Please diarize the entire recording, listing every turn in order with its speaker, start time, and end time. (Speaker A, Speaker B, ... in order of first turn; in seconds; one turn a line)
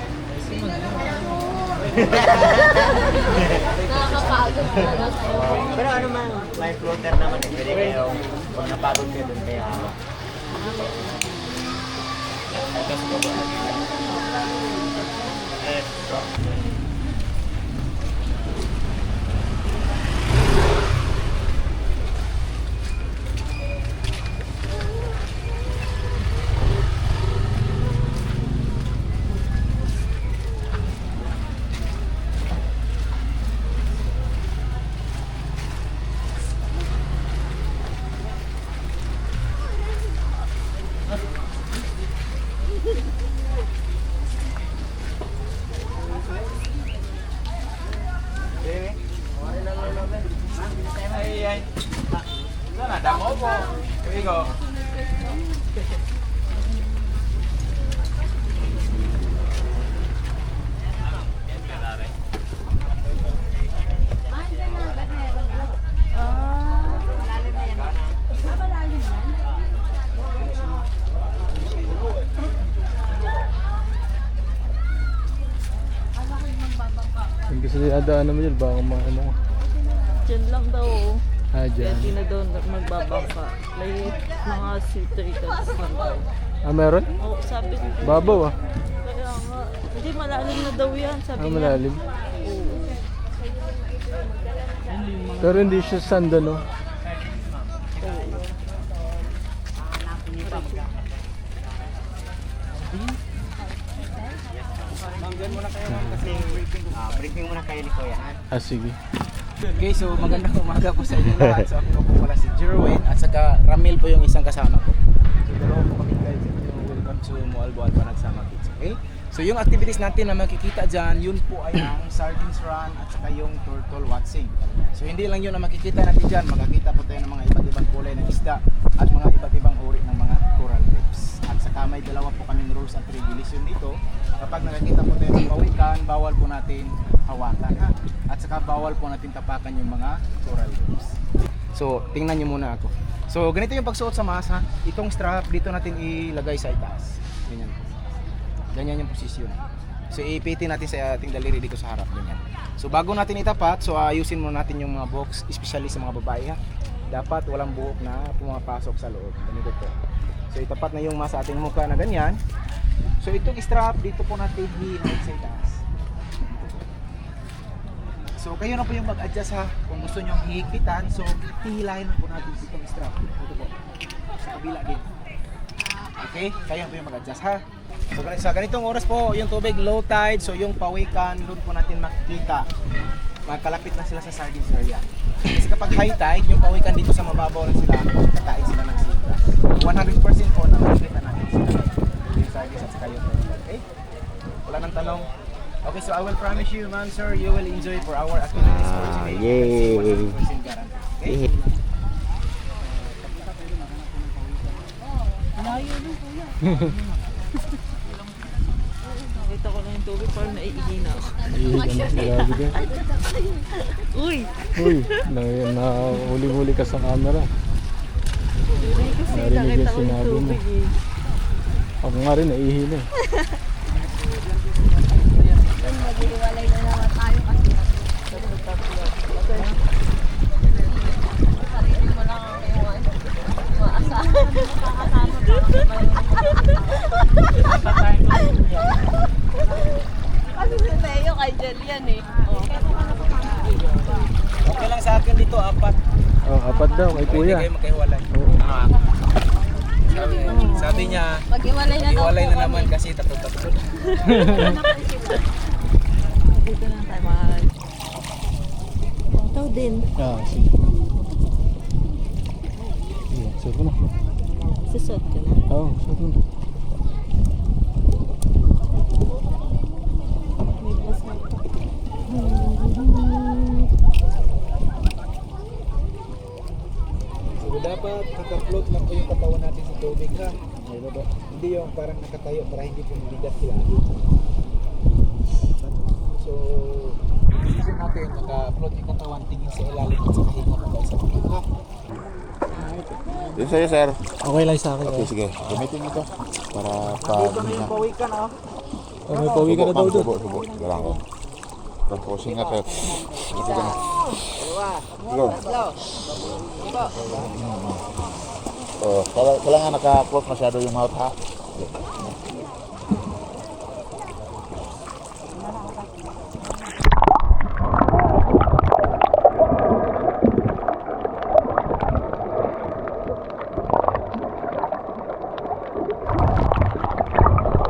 Speaker A: 3.9-5.6
Speaker B: 5.9-6.6
Speaker B: 7.4-8.0
Speaker C: 52.8-54.5
Speaker D: 66.1-67.2
Speaker E: 77.5-79.4
Speaker D: 80.2-81.2
Speaker E: 81.5-82.1
Speaker D: 81.8-86.2
Speaker E: 86.6-87.1
Speaker D: 87.2-91.9
Speaker E: 88.0-88.5
Speaker E: 91.4-92.0
Speaker D: 92.4-93.0
Speaker E: 95.4-96.6
Speaker D: 98.0-98.5
Speaker D: 100.4-100.9
Speaker C: 105.2-106.8
Speaker B: 107.2-108.3
Speaker E: 108.5-109.0
Speaker C: 109.6-141.2
Speaker C: 141.7-147.8
Speaker C: 148.7-149.6
Speaker C: 150.1-156.6
Speaker C: 157.1-159.9
Speaker C: 160.5-162.4
Speaker C: 163.2-165.8
Speaker C: 166.4-166.8
Speaker C: 168.4-173.7
Speaker C: 174.4-175.1
Speaker C: 176.2-182.7
Speaker C: 183.5-193.8
Speaker C: 194.7-195.3
Speaker C: 195.8-201.5
Speaker D: 209.3-211.6
Speaker E: 211.5-212.8
Speaker D: 212.2-215.2
Speaker E: 214.8-217.5
Speaker D: 218.8-221.0
Speaker E: 219.3-220.6
Speaker E: 222.0-223.1
Speaker A: 225.8-228.1
Speaker D: 228.3-229.8
Speaker A: 231.6-235.4
Speaker D: 234.1-235.7
Speaker A: 236.0-236.6
Speaker D: 236.4-237.0
Speaker A: 240.6-242.4
Speaker D: 242.5-242.8
Speaker C: 244.6-246.0
Speaker E: 246.4-247.7
Speaker C: 247.2-248.9
Speaker C: 250.1-254.9
Speaker D: 250.5-251.2
Speaker A: 251.5-252.4
Speaker D: 254.3-254.8
Speaker E: 254.4-254.7
Speaker D: 256.5-257.7
Speaker D: 259.3-260.1
Speaker E: 260.2-260.8
Speaker E: 263.3-264.0
Speaker D: 264.9-265.6
Speaker E: 265.7-266.4
Speaker D: 270.8-271.6
Speaker D: 272.3-273.8
Speaker C: 277.5-280.6
Speaker C: 281.2-284.1
Speaker C: 286.3-291.6
Speaker F: 293.5-294.3
Speaker E: 294.4-295.3
Speaker F: 295.0-298.0
Speaker E: 299.3-300.4
Speaker F: 299.5-301.2
Speaker F: 302.1-304.0
Speaker F: 305.3-305.6
Speaker F: 307.4-307.9
Speaker F: 309.0-311.9